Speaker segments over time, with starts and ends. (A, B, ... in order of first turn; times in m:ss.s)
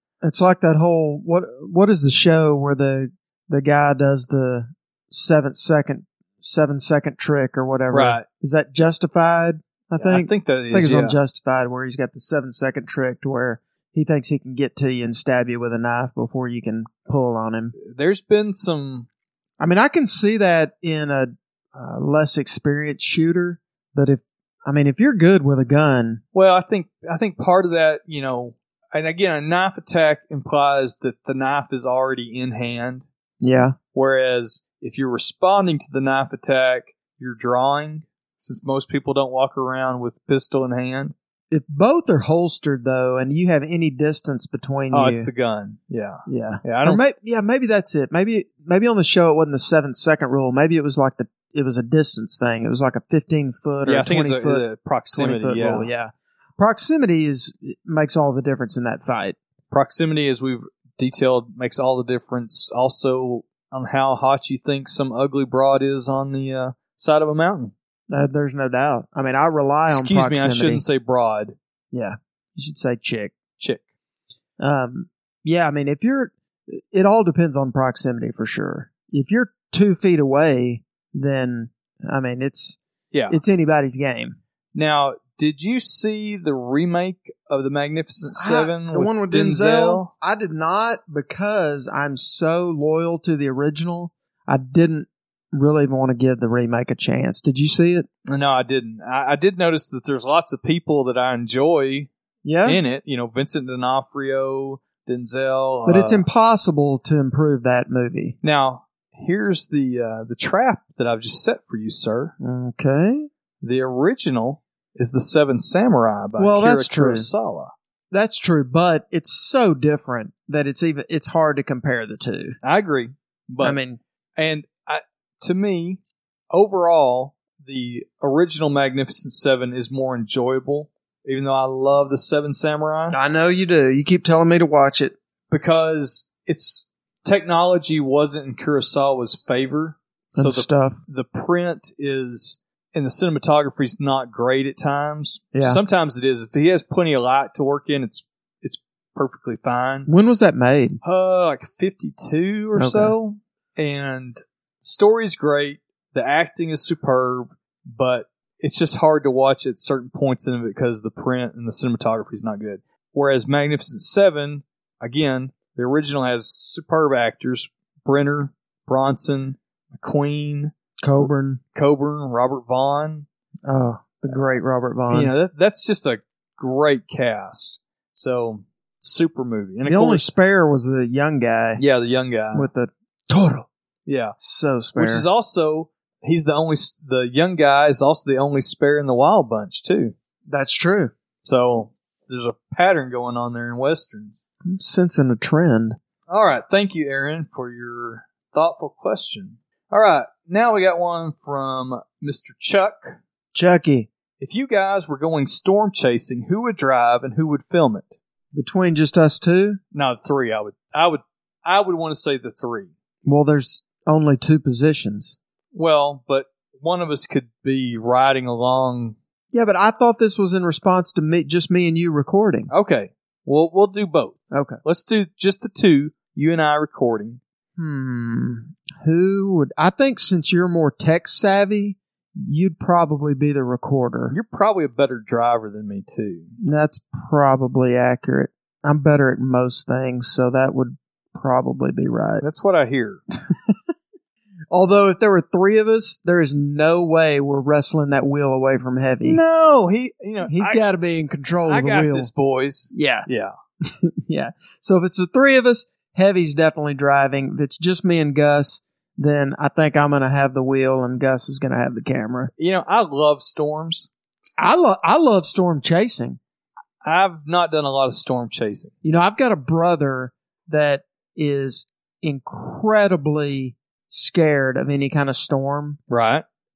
0:00.2-0:17.7 A
0:07.9-0:08.2 B
0:10.0-0:11.2 B
0:17.8-0:19.1 B
0:19.6-0:26.2 A
0:26.3-0:33.0 B
0:33.4-0:33.8 A
0:33.9-0:41.1 B
0:41.5-0:45.3 A
0:44.9-0:47.0 B
0:46.2-0:59.4 A
0:53.8-0:55.9 B
0:59.7-1:07.7 B
1:08.1-1:10.8 A
1:09.9-1:11.6 B
1:11.9-1:13.4 A
1:13.6-1:13.8 B
1:14.6-1:24.4 A
1:23.1-1:23.4 B
1:24.7-1:30.1 B
1:28.3-1:38.1 A
1:38.3-1:42.1 B
1:42.4-1:42.8 A
1:42.6-1:46.2 B
1:45.8-1:48.4 A
1:48.4-1:52.3 B
1:52.4-1:53.3 A
1:53.6-1:57.7 B
1:56.4-1:57.3 A
1:58.1-2:02.6 A
2:02.6-2:03.8 B
2:03.6-2:04.0 A
2:04.4-2:06.0 B
2:06.5-2:13.2 B
2:13.1-2:15.1 A
2:15.5-2:30.1 B
2:20.3-2:21.0 A
2:25.5-2:25.8 A
2:30.1-2:31.0 A
2:31.0-2:53.3 B
2:32.8-2:33.1 A
2:51.0-2:51.6 A
2:53.6-2:55.3 A
2:55.1-3:00.3 B
2:59.8-3:01.8 A
3:01.8-3:02.7 B
3:02.5-3:03.7 A
3:04.0-3:04.4 B
3:04.4-3:05.3 A
3:04.9-3:10.1 B
3:10.5-3:11.1 A
3:11.4-3:14.4 B
3:14.6-3:16.0 A
3:16.3-3:23.2 B
3:23.5-3:24.1 A
3:24.4-3:28.2 B
3:28.5-3:29.8 A
3:29.9-3:32.9 B
3:33.2-3:35.4 A
3:35.7-3:39.2 B
3:39.5-3:42.7 A
3:42.7-3:47.4 B
3:44.5-3:44.8 A
3:47.8-3:54.3 A
3:54.3-3:56.5 B
3:56.6-4:02.4 A
4:02.4-4:03.2 B
4:03.5-4:03.8 A
4:04.7-4:09.4 A
4:09.2-4:10.8 B
4:10.4-4:12.3 A
4:11.7-4:13.5 B
4:12.9-4:13.3 A
4:13.8-4:22.5 A
4:22.6-4:24.1 B
4:24.6-4:26.4 A
4:27.0-4:28.9 B
4:29.0-4:36.0 A
4:36.1-4:36.4 B